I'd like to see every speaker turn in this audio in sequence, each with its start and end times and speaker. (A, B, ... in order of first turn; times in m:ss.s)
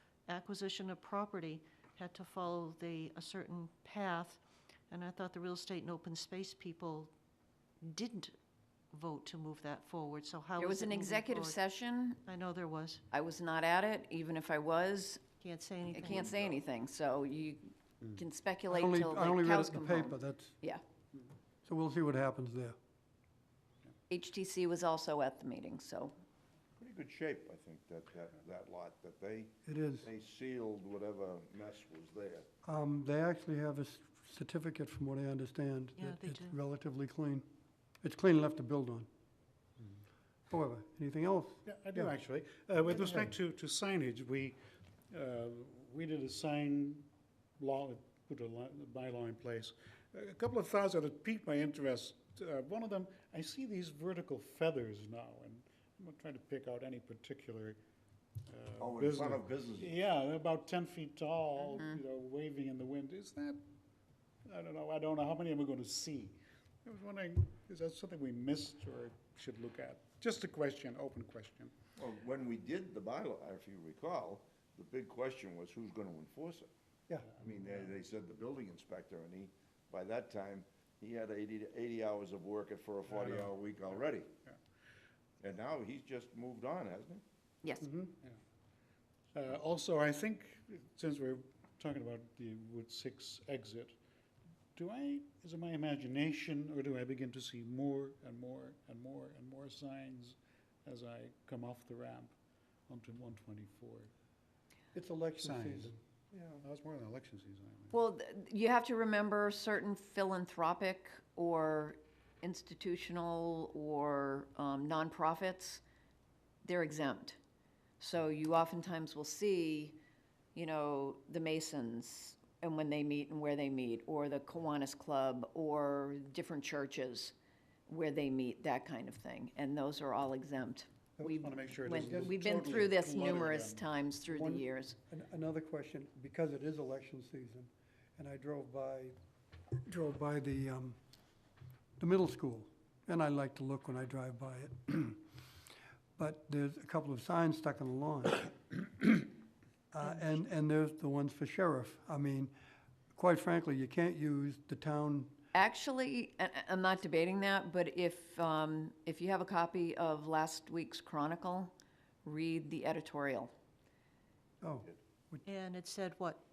0:00.3-0:07.1 A
0:07.8-0:08.3 A
0:08.9-0:11.6 A
0:10.6-0:12.2 B
0:12.3-0:13.0 A
0:13.1-0:15.2 B
0:15.4-0:16.3 A
0:15.9-0:20.8 B
0:18.7-0:20.6 C
0:21.6-0:22.8 C
0:24.1-0:26.1 B
0:26.8-0:32.5 D
0:29.7-0:30.1 C
0:32.6-0:37.5 C
0:36.0-0:36.6 A
0:38.0-0:39.1 C
0:40.5-0:42.1 C
0:41.7-0:44.6 E
0:42.9-0:43.3 C
0:45.1-0:47.1 E
0:47.6-0:57.8 E
0:58.5-1:03.6 E
0:58.8-1:00.0 D
1:04.5-1:11.8 E
1:12.0-1:16.7 D
1:17.2-1:18.0 E
1:17.4-1:24.3 D
1:23.1-1:23.5 E
1:25.4-1:27.2 D
1:27.8-1:28.4 E
1:29.3-1:34.0 E
1:34.8-1:42.4 E
1:42.9-1:44.1 E
1:45.0-1:46.6 C
1:45.4-1:46.0 E
1:46.6-1:47.9 E
1:47.9-1:55.8 B
1:56.6-1:57.4 B
1:58.0-2:00.0 B
2:00.6-2:07.4 B
2:07.9-2:15.0 B
2:11.3-2:13.9 E
2:12.0-2:12.4 C
2:14.3-2:19.2 C
2:19.8-2:21.0 C
2:22.0-2:25.2 C
2:26.2-2:29.2 C
2:29.9-2:32.5 C
2:33.2-2:35.4 C
2:35.5-2:41.7 B
2:42.2-2:43.5 B
2:44.6-2:45.4 C
2:45.4-2:46.4 A